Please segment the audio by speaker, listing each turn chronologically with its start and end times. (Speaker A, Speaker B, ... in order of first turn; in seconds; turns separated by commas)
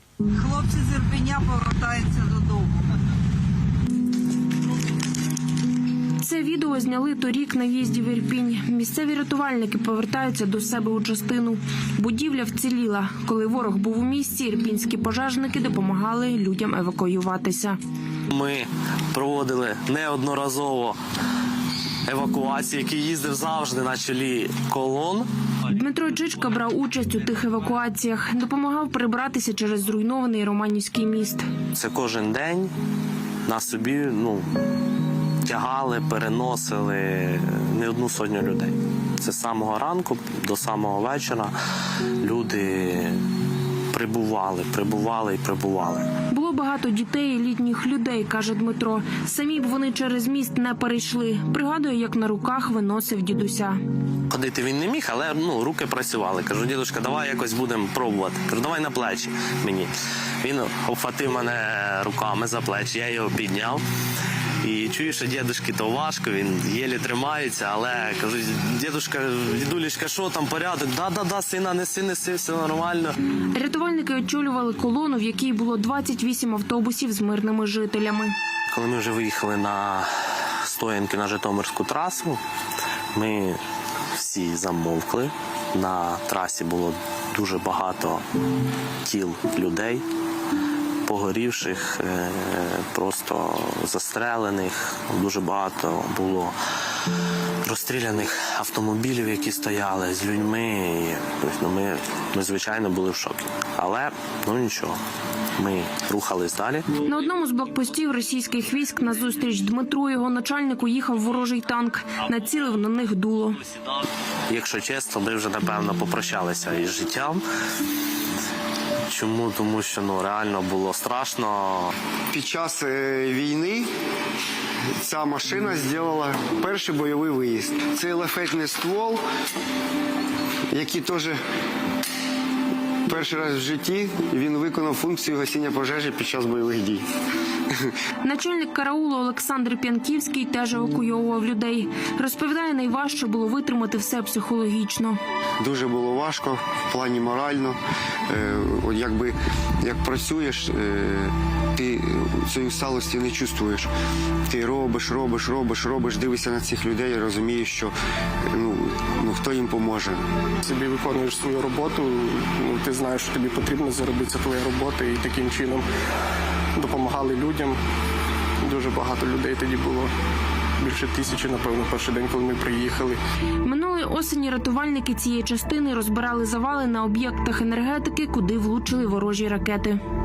Speaker A: 0.4-2.7, Speaker B: 6.2-17.8, Speaker C: 18.3-21.0, Speaker C: 22.1-25.3, Speaker B: 25.7-31.4, Speaker C: 31.7-32.7, Speaker C: 33.4-34.5, Speaker C: 35.4-41.5, Speaker C: 42.2-43.2, Speaker C: 43.9-46.1, Speaker B: 46.3-53.8, Speaker C: 54.3-63.8, Speaker C: 64.6-73.2, Speaker B: 73.5-78.3, Speaker C: 78.7-80.1, Speaker C: 80.6-82.4, Speaker C: 83.1-83.6, Speaker C: 84.1-88.2, Speaker C: 89.0-90.0, Speaker C: 91.0-96.5, Speaker C: 97.6-105.0, Speaker C: 105.6-106.9, Speaker B: 107.0-113.6, Speaker C: 114.5-117.4, Speaker C: 119.1-121.9, Speaker D: 122.3-123.9, Speaker D: 125.0-129.2, Speaker D: 130.7-131.4, Speaker D: 133.1-137.0, Speaker B: 138.2-145.2, Speaker D: 145.6-153.9, Speaker D: 154.5-157.9, Speaker D: 158.5-160.2, Speaker E: 160.6-165.8, Speaker E: 166.7-167.8, Speaker E: 168.6-170.1, Speaker E: 170.8-173.2, Speaker B: 173.6-180.0